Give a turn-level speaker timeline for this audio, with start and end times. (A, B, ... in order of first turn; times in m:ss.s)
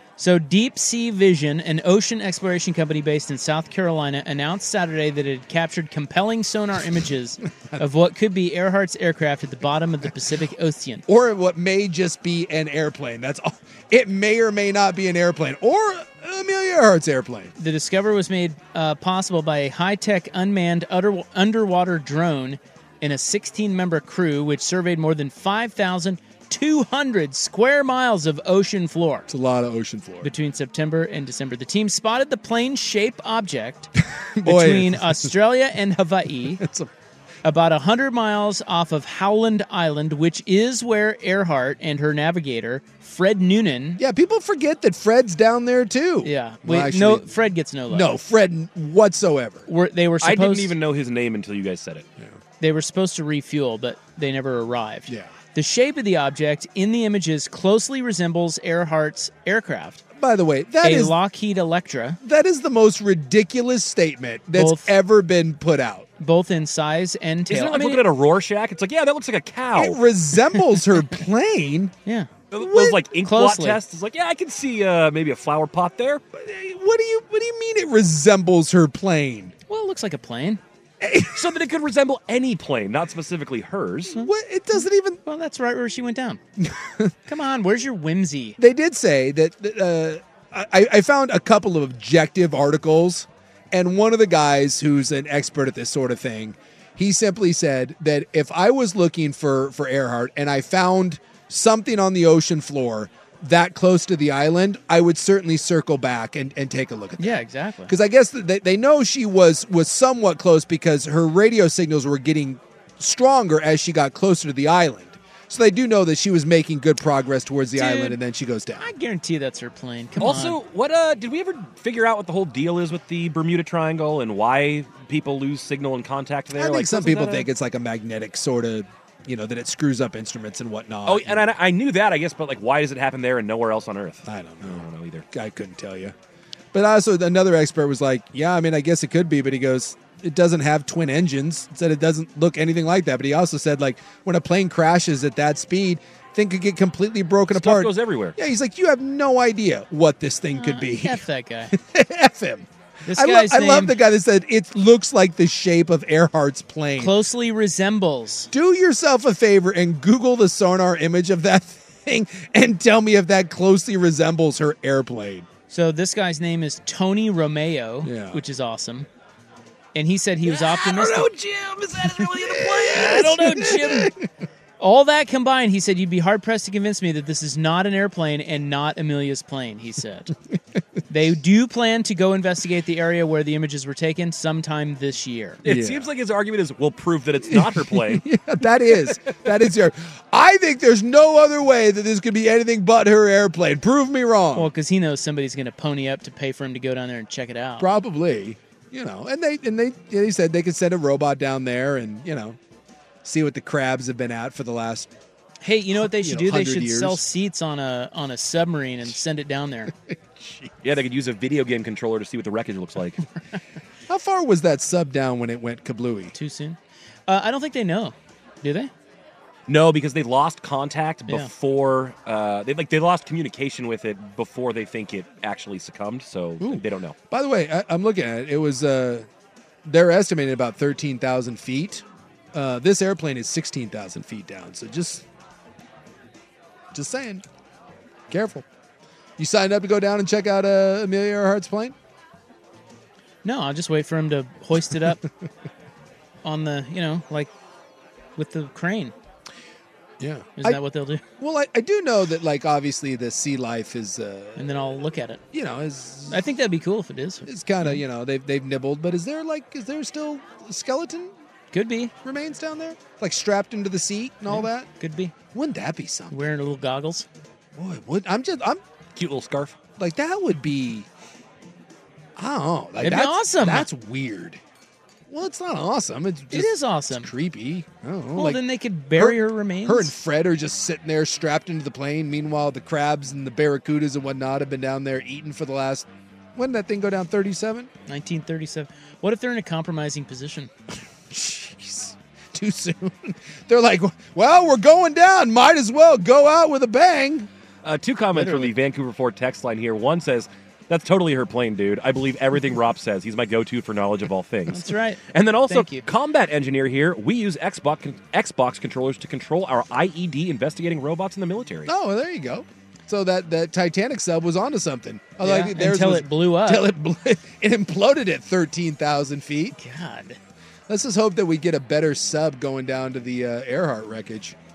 0:00.2-0:11.1 A
0:11.1-0:17.5 B
0:17.6-0:29.3 A
0:29.3-0:30.3 B
0:30.2-0:33.9 A
0:34.4-0:35.3 B
0:34.4-0:36.6 A
0:36.6-0:36.9 B
0:37.4-0:44.0 A
0:44.0-0:47.3 B
0:46.2-0:48.2 A
0:47.9-0:49.7 B
0:49.7-0:50.7 A
0:50.2-0:52.1 C
0:52.6-1:00.0 A
0:55.1-0:55.3 B
1:00.2-1:01.2 B
1:00.8-1:02.2 A
1:02.2-1:06.1 B
1:04.6-1:04.9 A
1:06.2-1:08.0 A
1:07.5-1:10.0 C
1:09.7-1:11.9 B
1:10.5-1:10.8 A
1:12.0-1:12.3 A
1:12.5-1:16.2 C
1:12.6-1:13.0 B
1:13.2-1:13.8 A
1:16.3-1:19.5 B
1:19.7-1:20.6 A
1:21.0-1:21.5 B
1:21.3-1:24.2 C
1:24.1-1:25.2 B
1:24.2-1:26.4 A
1:26.6-1:27.1 B
1:27.3-1:28.6 A
1:28.6-1:58.9 B
1:47.2-1:47.9 A
1:57.8-1:58.2 A
1:58.8-2:00.6 A
2:00.2-2:07.5 C
2:06.6-2:11.4 B
2:11.1-2:15.2 C
2:14.3-2:16.2 B
2:16.7-2:37.2 B
2:27.5-2:28.4 C
2:30.6-2:31.7 A
2:33.0-2:34.0 A
2:37.0-2:38.5 A
2:38.5-2:45.5 B
2:45.7-2:49.1 A
2:48.0-2:48.4 B
2:50.0-2:51.3 A
2:50.5-2:53.3 C
2:52.0-2:54.3 B
2:52.9-2:54.1 A
2:54.8-3:00.3 A
3:01.1-3:05.6 A
3:05.6-3:08.3 C
3:05.6-3:06.1 B
3:07.4-3:14.7 B
3:14.6-3:17.9 A
3:17.8-3:22.6 B
3:23.2-3:25.1 B
3:25.6-3:29.9 A
3:25.9-3:27.2 B
3:30.1-3:30.7 B
3:30.8-3:33.2 C
3:34.1-3:36.3 B
3:36.3-3:38.9 A
3:39.7-3:47.2 C
3:46.6-3:49.3 B
3:49.8-3:55.2 B
3:56.9-3:57.4 B
3:58.3-3:58.7 B
3:59.4-4:02.0 B
4:03.4-4:05.2 A
4:06.4-4:07.5 A
4:08.4-4:09.1 A
4:10.2-4:10.8 B
4:10.6-4:11.2 A
4:11.4-4:14.8 B
4:14.6-4:15.4 A
4:15.5-4:16.4 B
4:16.3-4:18.0 A
4:17.5-4:21.3 B
4:21.7-4:22.1 A
4:22.2-4:24.9 B
4:24.5-4:25.3 A
4:25.5-4:26.4 B
4:26.3-4:27.3 A
4:27.8-4:28.8 B
4:29.2-4:29.8 C
4:30.0-4:31.1 B
4:32.4-4:34.6 B
4:33.0-4:33.9 A
4:35.3-4:38.6 B
4:36.5-4:37.3 A
4:38.4-4:40.1 A
4:39.2-4:47.9 B
4:48.1-4:50.7 A
4:51.3-4:57.5 B
4:57.8-5:11.9 C
4:58.4-4:58.7 A
5:04.7-5:06.1 A
5:11.9-5:19.8 B
5:15.4-5:16.9 A
5:19.8-5:20.4 A
5:20.9-5:24.6 B